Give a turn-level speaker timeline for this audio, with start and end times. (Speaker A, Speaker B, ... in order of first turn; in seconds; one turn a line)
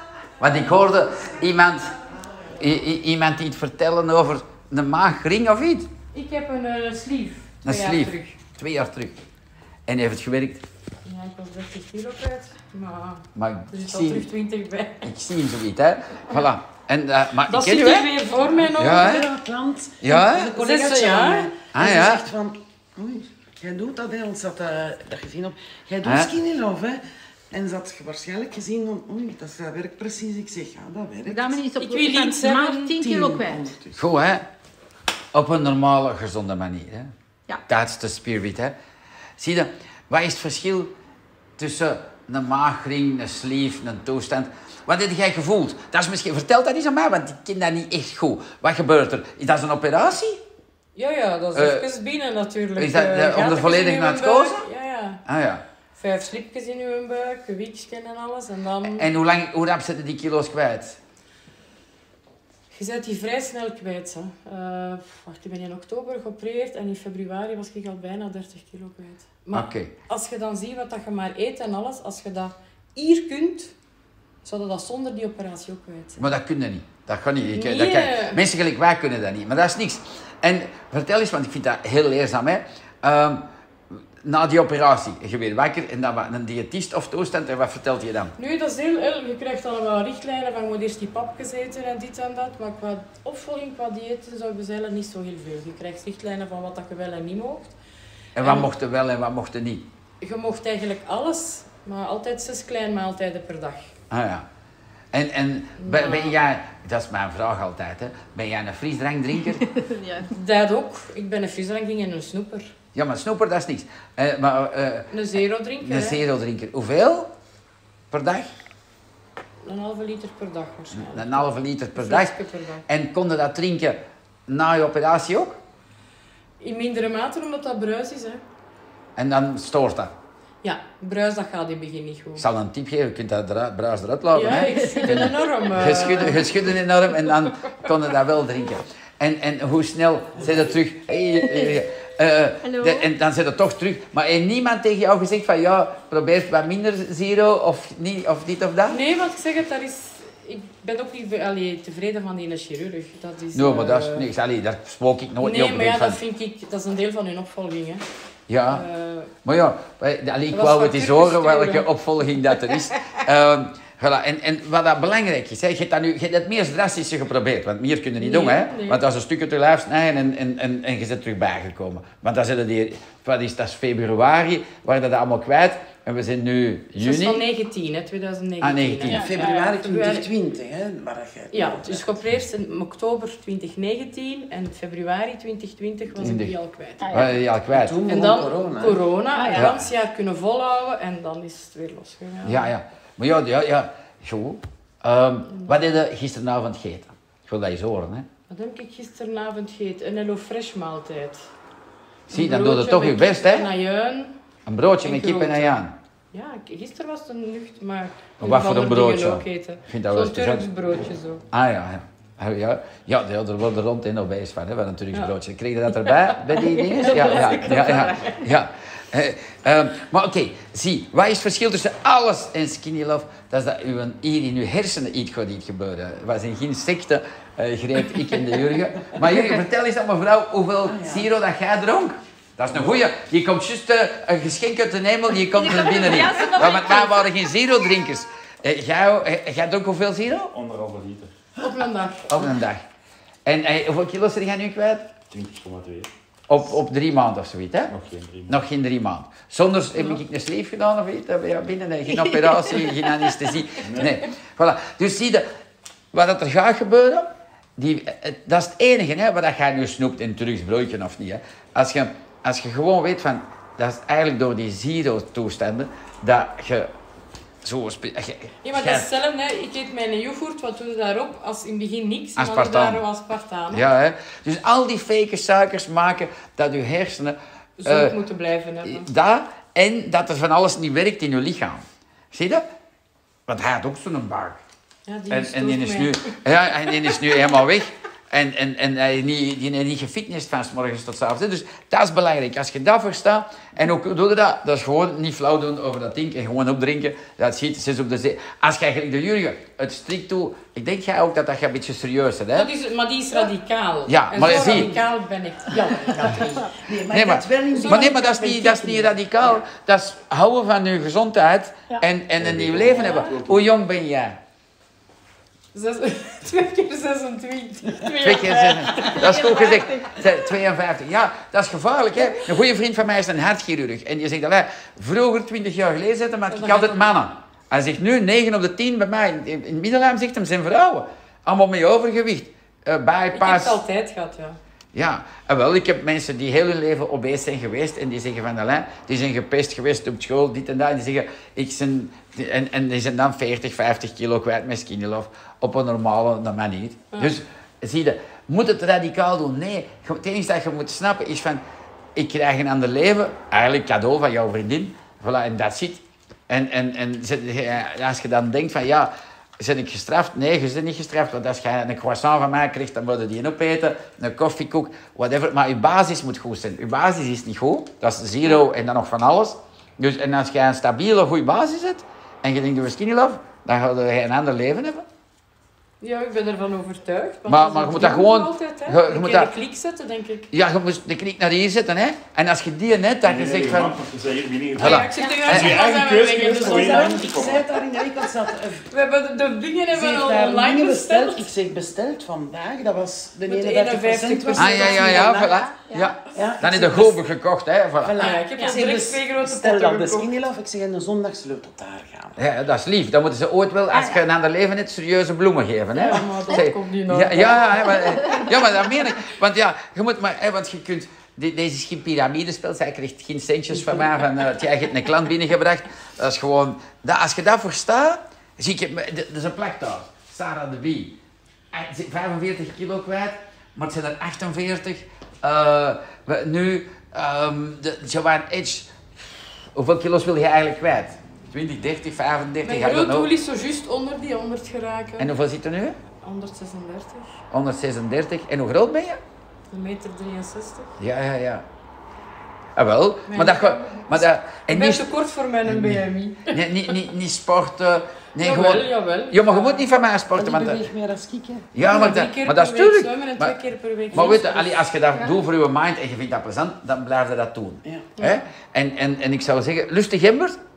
Speaker A: 0.4-1.9
Speaker A: 2.6-5.9
Speaker B: 6.1-8.4
Speaker A: 7.6-9.2
Speaker A: 9.9-10.6
Speaker B: 11.1-15.1
Speaker A: 13.3-14.3
Speaker A: 15.0-18.1
Speaker B: 17.5-19.2
Speaker C: 18.4-31.6
Speaker A: 18.8-19.3
Speaker A: 20.0-20.5
Speaker B: 20.6-21.5
Speaker A: 21.7-22.3
Speaker A: 26.0-26.3
Speaker D: 31.3-33.7
Speaker B: 31.8-33.0
Speaker C: 33.0-34.0
Speaker A: 34.0-34.5
Speaker A: 35.3-37.1
Speaker A: 37.7-38.8
Speaker A: 39.4-40.9
Speaker A: 41.6-50.4
Speaker B: 51.0-55.2
Speaker A: 51.5-51.9
Speaker A: 52.8-54.6
Speaker A: 55.3-55.6
Speaker B: 56.0-59.1
Speaker A: 58.8-61.0
Speaker B: 62.7-73.7
Speaker A: 69.5-69.9
Speaker B: 74.4-76.2
Speaker A: 76.2-83.4
Speaker B: 77.5-78.4
Speaker A: 84.2-88.3
Speaker B: 88.4-97.8
Speaker A: 98.3-99.9
Speaker B: 98.4-98.7
Speaker B: 100.2-103.9
Speaker A: 104.1-104.5
Speaker A: 105.1-109.7
Speaker B: 105.8-106.4
Speaker D: 109.7-110.3
Speaker B: 110.3-112.7
Speaker A: 112.9-117.3
Speaker B: 115.1-116.2
Speaker A: 118.1-118.5
Speaker B: 119.6-122.8
Speaker A: 120.9-122.3
Speaker A: 122.9-125.6
Speaker B: 126.6-128.4
Speaker A: 129.2-130.1
Speaker B: 130.6-132.5
Speaker A: 132.4-149.0
Speaker B: 134.3-136.5
Speaker D: 134.8-135.3
Speaker D: 141.4-141.8
Speaker D: 142.6-143.1
Speaker B: 148.9-154.3
Speaker A: 153.5-156.2
Speaker B: 155.4-158.0
Speaker A: 158.5-158.8
Speaker B: 158.7-159.3
Speaker A: 159.4-177.5
Speaker B: 160.5-161.9
Speaker B: 168.2-169.0
Speaker B: 177.0-180.3
Speaker A: 178.6-179.2
Speaker C: 179.1-182.1
Speaker B: 181.5-187.2
Speaker A: 186.2-186.5
Speaker D: 187.0-187.3
Speaker A: 187.1-188.0
Speaker C: 187.7-189.1
Speaker B: 188.1-192.7
Speaker D: 189.3-189.7
Speaker A: 189.5-189.8
Speaker A: 192.4-198.3
Speaker B: 198.5-201.5
Speaker A: 202.3-203.7
Speaker B: 202.3-204.3
Speaker A: 204.7-205.9
Speaker B: 205.0-205.8
Speaker B: 206.3-211.4
Speaker A: 208.4-210.7
Speaker A: 211.5-240.5
Speaker B: 216.0-216.3
Speaker D: 216.6-218.4
Speaker B: 217.1-217.6
Speaker C: 230.8-231.3
Speaker E: 232.7-233.0
Speaker D: 235.5-237.3
Speaker E: 240.5-241.3
Speaker B: 241.6-242.3
Speaker A: 242.3-242.9
Speaker A: 243.4-245.1
Speaker E: 245.3-246.1
Speaker A: 246.5-247.9
Speaker E: 247.9-248.6
Speaker A: 248.5-255.5
Speaker D: 252.1-252.9
Speaker E: 253.8-254.2
Speaker A: 256.1-266.9
Speaker A: 267.6-269.1
Speaker B: 268.6-273.9
Speaker A: 272.4-273.0
Speaker A: 273.7-278.1
Speaker B: 277.8-279.1
Speaker A: 278.8-282.7
Speaker A: 283.5-284.6
Speaker B: 285.1-286.3
Speaker A: 285.3-302.7
Speaker B: 287.1-287.4
Speaker B: 302.5-306.7
Speaker A: 304.1-304.9
Speaker C: 306.1-309.6
Speaker A: 307.1-314.4
Speaker B: 307.7-308.4
Speaker E: 312.4-313.7
Speaker B: 315.7-319.2
Speaker A: 318.2-333.8
Speaker D: 318.4-320.5
Speaker B: 326.5-327.2
Speaker B: 333.3-334.6
Speaker A: 334.9-351.6
Speaker A: 352.1-375.1
Speaker B: 376.0-380.5
Speaker A: 377.5-379.5
Speaker A: 380.5-384.0
Speaker E: 383.2-387.7
Speaker A: 384.8-385.8
Speaker B: 384.8-387.6
Speaker D: 385.2-385.6
Speaker C: 386.4-388.9
Speaker B: 388.9-391.5
Speaker C: 389.9-395.6
Speaker B: 393.5-395.3
Speaker A: 394.6-398.2
Speaker D: 395.5-396.2
Speaker C: 396.3-397.2
Speaker C: 398.0-402.4
Speaker B: 398.2-400.3
Speaker A: 402.4-421.1
Speaker D: 403.9-404.2
Speaker B: 405.9-407.9
Speaker D: 408.0-408.5
Speaker A: 421.7-433.3
Speaker B: 432.6-435.3
Speaker A: 435.2-436.0
Speaker B: 436.2-437.4
Speaker A: 437.5-439.2
Speaker B: 439.7-440.9
Speaker A: 441.0-441.7
Speaker A: 442.8-445.1
Speaker B: 443.3-447.0
Speaker A: 445.6-450.9
Speaker B: 448.4-449.9
Speaker C: 450.4-451.7
Speaker A: 451.7-453.6
Speaker B: 451.8-454.7
Speaker A: 454.1-460.6
Speaker B: 458.2-458.5